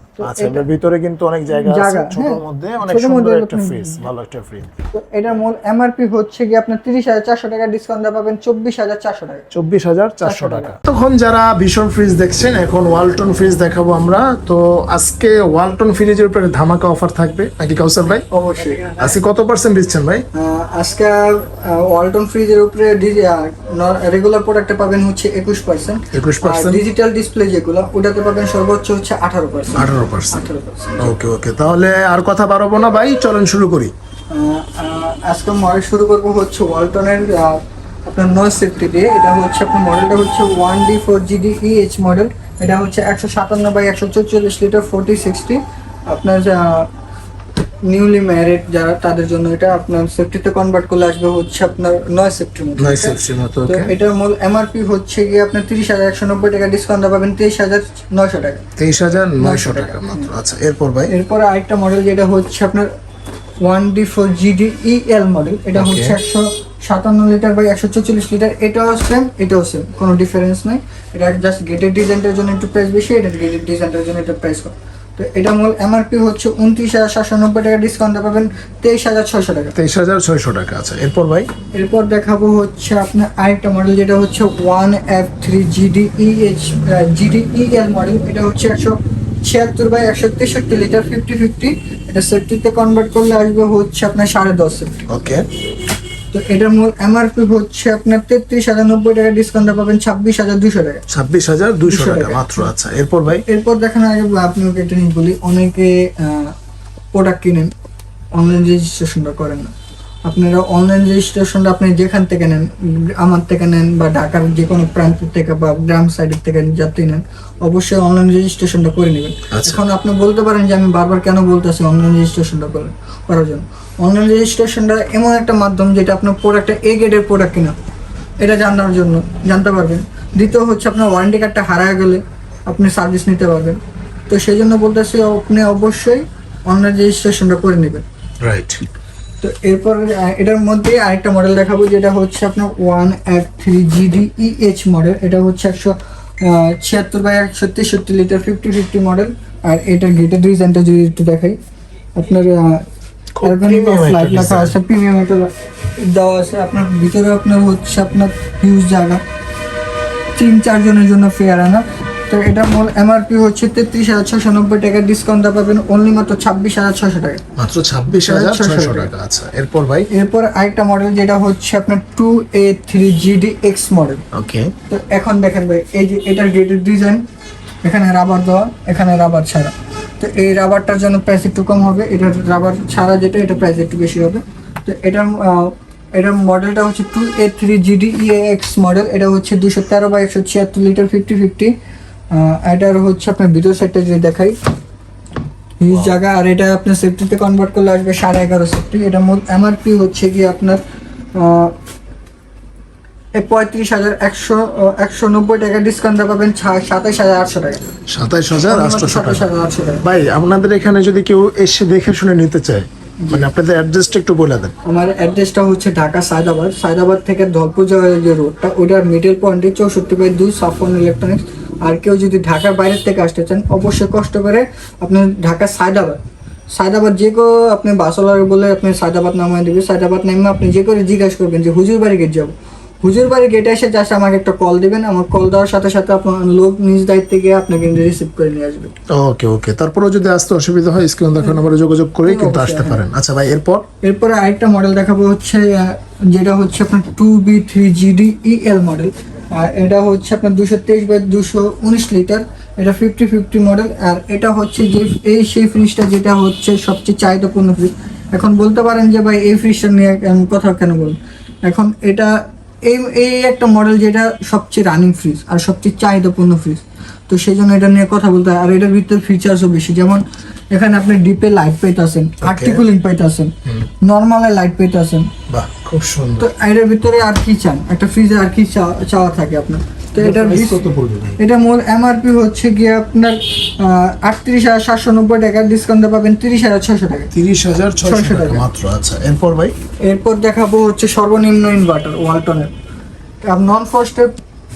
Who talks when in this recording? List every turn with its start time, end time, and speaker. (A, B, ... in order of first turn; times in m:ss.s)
0:00.2-0:00.7 A
0:00.2-0:04.7 B
0:01.6-0:04.1 A
0:04.9-0:09.5 A
0:09.5-0:18.3 B
0:10.2-0:10.7 A
0:18.3-0:19.0 A
0:19.0-0:20.2 B
0:20.3-0:31.1 A
0:26.1-0:26.8 B
0:29.8-0:30.4 B
0:31.0-0:33.9 B
0:34.3-0:46.9 A
0:47.8-0:58.6 A
0:52.8-0:53.9 B
0:58.8-1:01.1 B
0:59.4-1:00.3 A
1:01.1-1:02.9 A
1:03.6-1:19.7 A
1:05.8-1:06.2 B
1:19.8-1:21.5 B
1:21.7-1:35.1 A
1:35.1-1:35.4 B
1:36.3-1:41.0 A
1:41.1-1:43.4 B
1:41.9-1:42.7 A
1:43.5-1:46.6 A
1:47.1-1:47.7 A
1:48.3-1:49.7 A
1:50.3-2:07.8 A
1:59.5-1:59.8 B
2:08.4-2:18.1 A
2:18.4-2:18.8 B
2:19.4-2:31.6 A
2:32.2-2:32.9 A
2:33.4-2:34.8 B
2:33.4-2:39.2 A
2:40.4-2:47.5 A
2:47.6-2:50.1 B
2:48.1-2:49.1 A
2:50.1-2:54.2 A
2:54.3-2:54.7 B
2:54.9-2:57.2 A
2:57.8-3:11.8 A
3:12.3-3:14.6 A
3:15.8-3:20.8 A
3:21.4-3:21.8 A
3:23.4-3:28.0 A
3:28.1-3:29.5 B
3:28.7-3:30.0 A
3:30.0-3:34.8 B
3:33.2-3:33.5 A
3:34.8-3:46.2 A
3:46.7-3:59.0 A
3:59.1-4:03.9 B
4:02.2-4:03.1 A
4:04.0-4:35.3 A
4:32.4-4:32.8 B
4:35.5-4:36.5 B
4:36.4-4:40.8 A
4:40.2-4:41.4 B
4:41.4-4:47.3 A
4:47.3-4:49.7 B
4:48.0-4:48.7 A
4:50.0-4:52.7 A
4:53.4-4:54.4 A